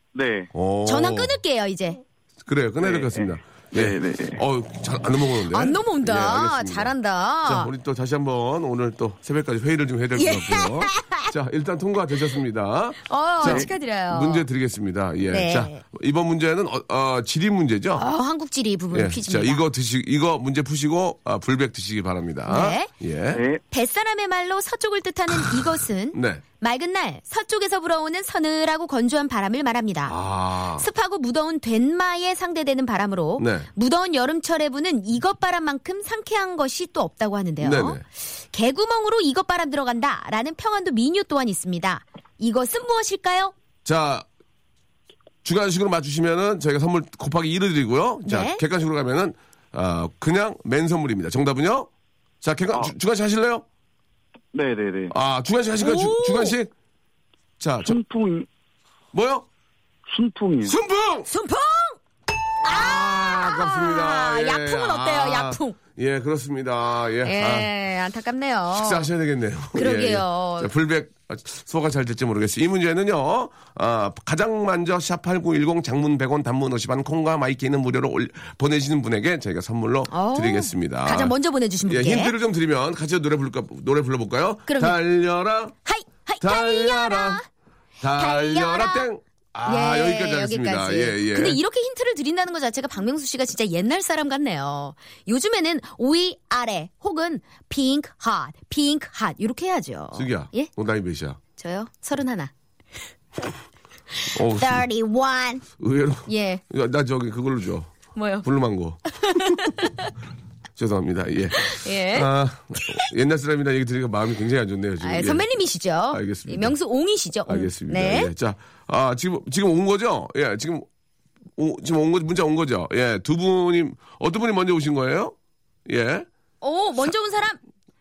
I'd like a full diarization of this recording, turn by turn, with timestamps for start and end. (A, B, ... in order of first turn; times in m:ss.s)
0:00.1-0:00.5 A
0:00.5-0:01.4 B
0:00.8-0:02.0 C
0:02.4-0:06.9 B
0:02.8-0:04.4 A
0:05.5-0:07.7 C
0:07.4-0:18.0 B
0:10.2-0:11.3 C
0:13.1-0:14.4 C
0:13.4-0:13.7 A
0:15.3-0:15.8 C
0:18.0-0:19.6 C
0:18.9-0:23.4 B
0:22.5-0:22.9 C
0:23.3-0:23.6 A
0:23.7-0:30.2 C
0:25.3-0:26.4 B
0:30.1-0:30.9 B
0:30.8-0:43.5 C
0:33.4-0:33.7 B
0:37.6-0:38.0 B
0:43.8-0:44.2 B
0:45.4-0:51.9 B
0:48.2-0:48.6 C
0:52.4-0:53.6 B
0:54.5-0:55.1 A
0:55.1-0:56.7 B
0:55.8-0:56.6 C
0:57.6-0:58.0 B
0:57.8-0:58.4 A
0:59.1-0:59.4 B
1:00.1-1:00.8 A
1:00.6-1:01.3 B
1:01.3-1:02.0 C
1:02.6-1:05.8 C
1:02.6-1:07.7 B
1:07.2-1:09.1 C
1:08.7-1:21.3 B
1:09.7-1:10.7 C
1:20.1-1:22.3 C
1:21.9-1:25.7 B
1:24.7-1:25.0 C
1:25.8-1:27.4 C
1:26.4-1:27.4 B
1:28.0-1:31.6 B
1:28.2-1:29.1 C
1:29.6-1:40.7 C
1:40.1-1:41.4 B
1:41.6-1:42.5 C
1:44.3-1:44.8 B
1:44.3-1:45.6 C
1:45.8-1:49.7 B
1:46.3-1:46.6 C
1:48.1-1:48.4 C
1:49.2-1:50.1 C
1:50.8-1:55.4 B
1:51.6-1:52.3 C
1:55.0-1:58.3 C
1:56.1-1:56.8 B
1:57.5-2:00.9 B
2:01.6-2:05.3 B
2:05.9-2:06.3 B
2:06.6-2:07.6 C